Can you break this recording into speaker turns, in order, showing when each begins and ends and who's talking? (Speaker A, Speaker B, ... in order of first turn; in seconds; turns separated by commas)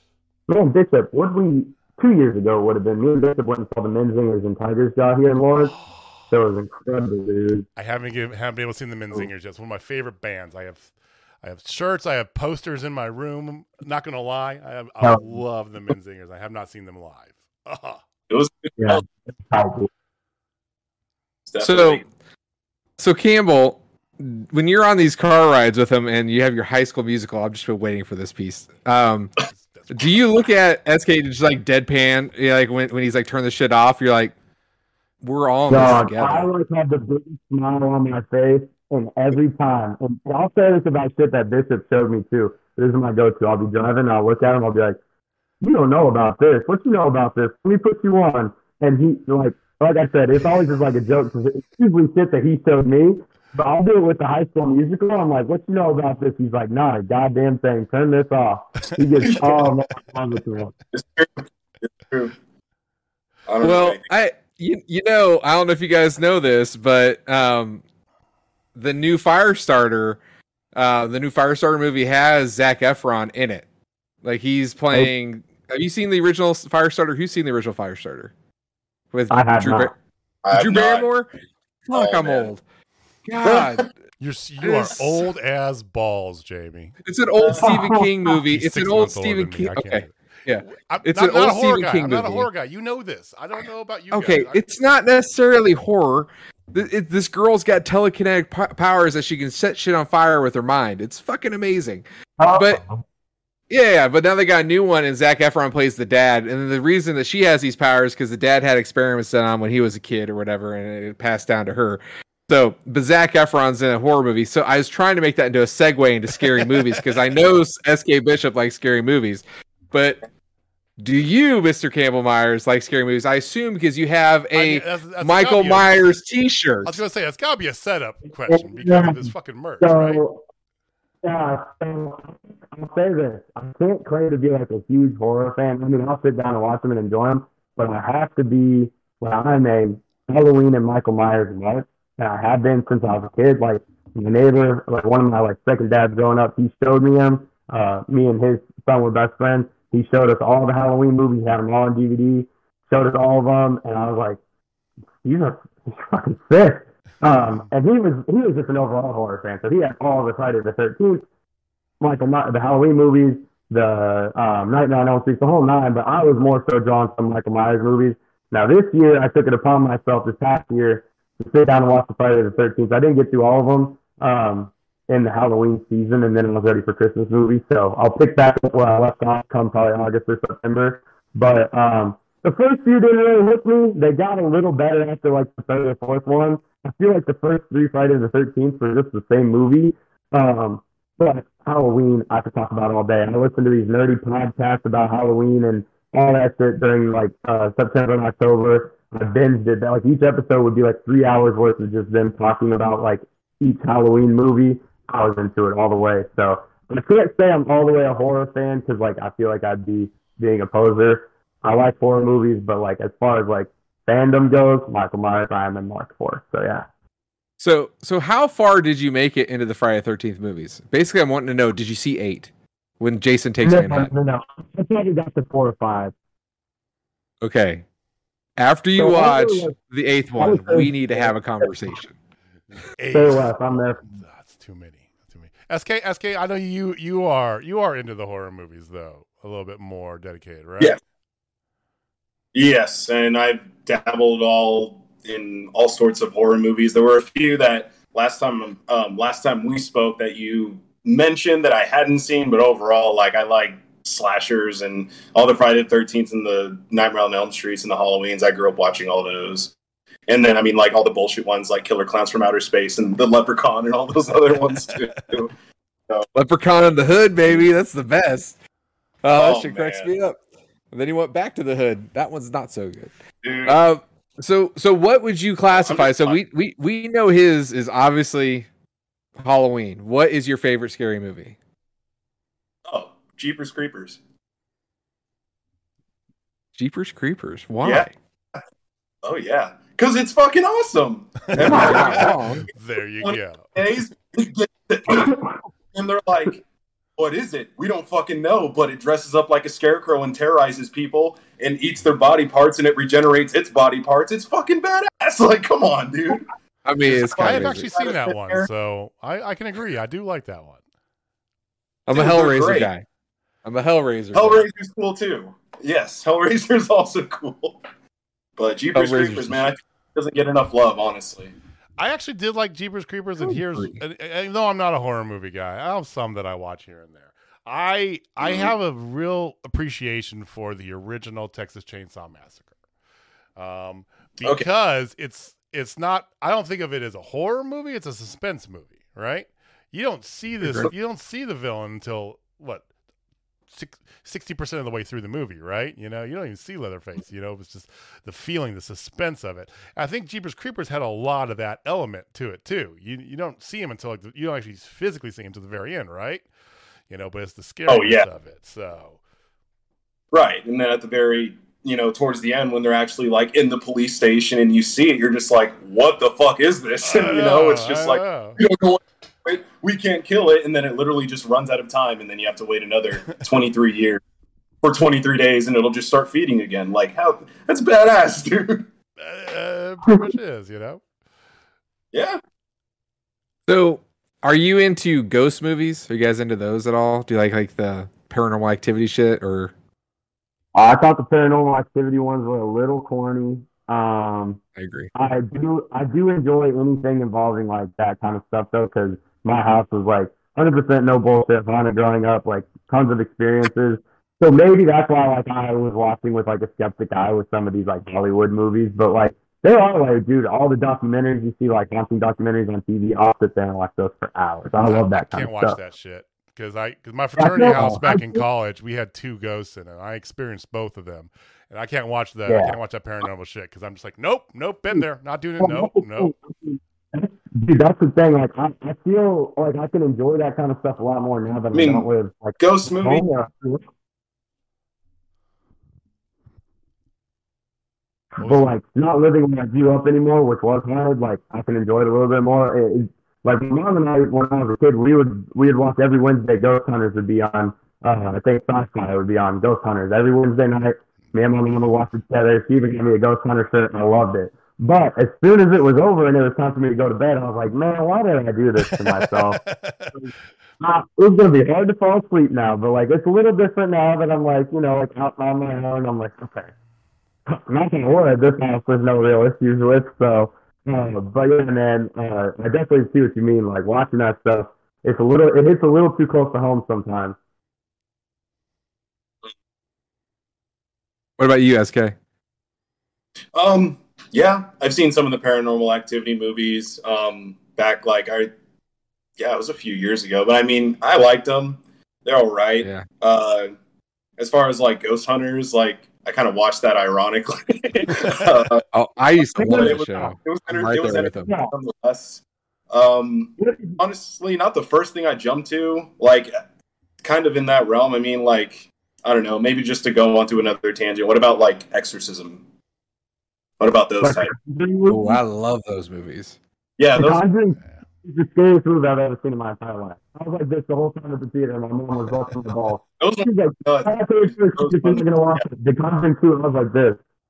Speaker A: 0.5-5.7, Speaker B: 5.6-6.1, Speaker A: 6.3-7.7, Speaker B: 7.8-18.0, Speaker A: 15.0-15.4, Speaker C: 18.3-19.0, Speaker A: 18.8-19.9, Speaker C: 21.5-22.0, Speaker D: 21.6-22.0, Speaker D: 23.0-34.3, Speaker D: 35.2-36.5, Speaker A: 35.7-45.0, Speaker A: 45.6-60.7, Speaker C: 59.2-59.7, Speaker C: 60.9-62.4, Speaker C: 63.5-64.0, Speaker D: 63.6-67.8, Speaker D: 68.8-70.2, Speaker D: 70.8-73.7, Speaker D: 74.2-78.3, Speaker D: 79.1-79.9, Speaker A: 79.3-79.9, Speaker C: 80.4-81.1, Speaker D: 80.5-81.3, Speaker D: 81.9-82.6, Speaker C: 81.9-82.5, Speaker D: 83.3-83.9, Speaker C: 83.4-83.9, Speaker B: 84.2-87.0, Speaker D: 84.6-85.2, Speaker D: 87.0-92.5, Speaker C: 87.4-87.8, Speaker A: 87.6-88.4, Speaker B: 88.5-90.1, Speaker B: 90.7-94.6, Speaker D: 94.1-102.8, Speaker A: 102.4-103.0, Speaker D: 103.7-120.2, Speaker D: 121.0-127.0, Speaker B: 124.5-126.1, Speaker B: 126.8-130.2, Speaker A: 128.5-130.4, Speaker A: 131.2-154.4, Speaker A: 155.2-161.3, Speaker B: 157.3-157.6, Speaker A: 162.0-216.9, Speaker D: 217.6-224.1, Speaker A: 223.6-226.1, Speaker D: 227.4-227.8, Speaker D: 228.6-232.2, Speaker A: 229.0-229.8, Speaker A: 230.4-231.7, Speaker B: 233.0-241.0, Speaker A: 233.1-234.0, Speaker C: 242.5-259.7, Speaker C: 260.3-265.5, Speaker D: 266.4-268.6, Speaker D: 269.2-270.4, Speaker C: 269.3-270.1, Speaker D: 270.9-273.1, Speaker C: 273.4-273.8, Speaker D: 273.6-278.7, Speaker C: 275.7-276.4, Speaker D: 279.4-281.6, Speaker C: 282.9-284.2, Speaker D: 286.8-288.1, Speaker C: 289.2-292.4, Speaker B: 291.5-294.0, Speaker D: 291.6-292.7, Speaker C: 293.2-295.4, Speaker C: 295.9-296.6, Speaker C: 297.2-306.5, Speaker D: 306.9-307.9, Speaker C: 307.0-308.7, Speaker B: 307.1-310.8, Speaker D: 312.1-313.0, Speaker C: 312.1-312.9, Speaker D: 313.6-314.7, Speaker C: 314.3-317.8, Speaker C: 318.6-321.5, Speaker D: 318.9-319.7, Speaker B: 322.0-332.6, Speaker D: 323.4-323.9, Speaker C: 328.4-328.7, Speaker B: 333.6-342.9, Speaker D: 340.6-340.9, Speaker B: 343.7-356.5, Speaker B: 357.1-359.2, Speaker C: 357.9-358.3, Speaker C: 360.3-374.2, Speaker B: 367.0-368.6, Speaker C: 374.8-378.8, Speaker B: 379.2-381.0, Speaker A: 380.1-380.3, Speaker C: 382.1-382.4, Speaker D: 383.7-389.7, Speaker A: 390.8-394.6, Speaker D: 394.8-395.1, Speaker A: 395.1-415.8, Speaker B: 414.8-426.3, Speaker A: 417.4-418.4, Speaker D: 417.7-418.0, Speaker A: 422.5-422.8, Speaker A: 425.6-433.8, Speaker C: 431.7-432.1, Speaker C: 432.6-433.2, Speaker A: 438.4-459.6, Speaker B: 438.4-438.7, Speaker B: 458.8-460.1, Speaker A: 460.8-466.7, Speaker A: 467.5-477.4, Speaker D: 481.4-482.1, Speaker C: 483.5-488.5, Speaker C: 489.4-493.7, Speaker C: 494.4-498.8, Speaker D: 498.9-501.5, Speaker C: 499.6-506.5, Speaker A: 499.6-500.3, Speaker A: 501.4-501.7, Speaker A: 503.6-504.0, Speaker C: 507.2-512.6, Speaker C: 513.8-514.5, Speaker A: 514.2-515.4, Speaker D: 515.1-516.6, Speaker C: 517.0-517.4, Speaker A: 517.2-527.2, Speaker C: 523.2-525.2